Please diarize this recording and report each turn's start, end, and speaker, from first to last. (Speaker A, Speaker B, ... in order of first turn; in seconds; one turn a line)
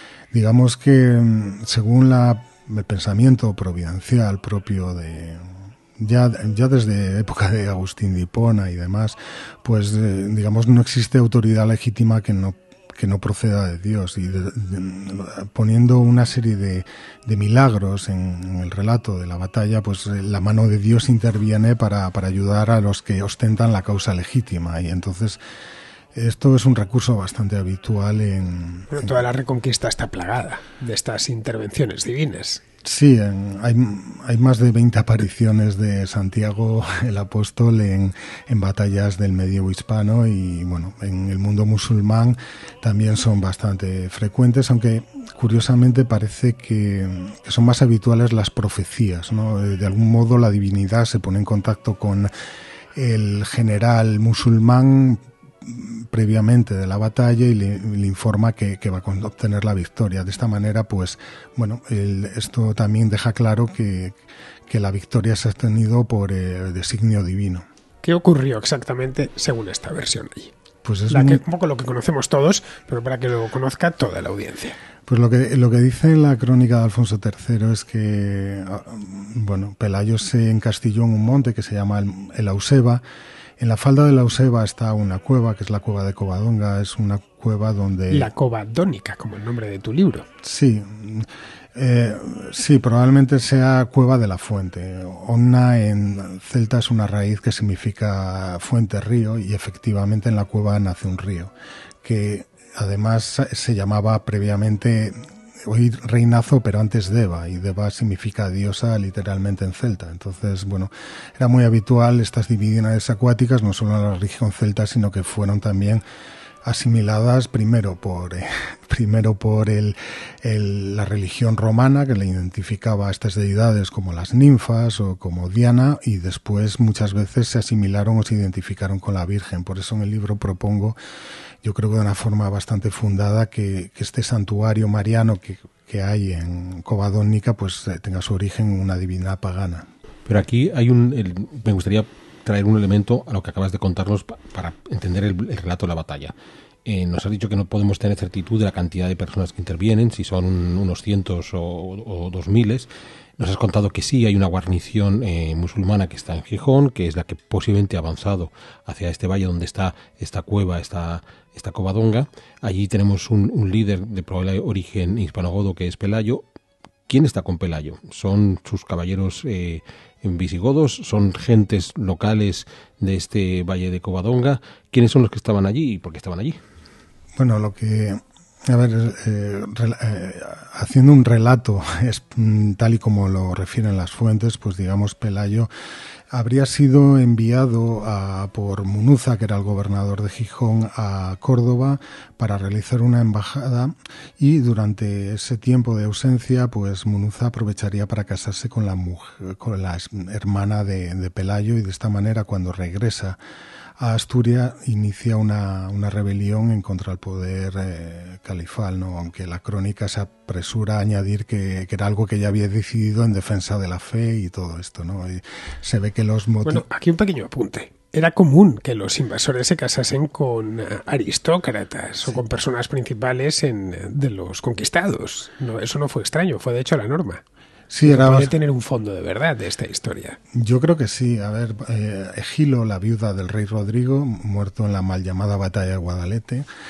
Speaker A: 0.3-25.4
Speaker A: 26.1-29.1
Speaker B: 28.9-32.6
Speaker A: 32.8-52.3
Speaker A: 52.9-64.2
Speaker A: 64.7-67.7
Speaker B: 68.0-70.5
Speaker A: 70.8-71.4
Speaker B: 71.1-74.8
Speaker A: 75.1-83.0
Speaker A: 83.6-88.3
Speaker B: 88.1-90.3
Speaker A: 90.4-116.0
Speaker A: 116.6-130.9
Speaker A: 131.6-139.9
Speaker C: 140.3-146.3
Speaker C: 146.8-166.4
Speaker C: 167.1-176.6
Speaker A: 177.4-185.7
Speaker A: 186.3-203.4
Speaker A: 204.0-216.8
Speaker B: 216.6-227.4
Speaker A: 227.9-228.5
Speaker B: 228.0-230.4
Speaker A: 230.5-236.7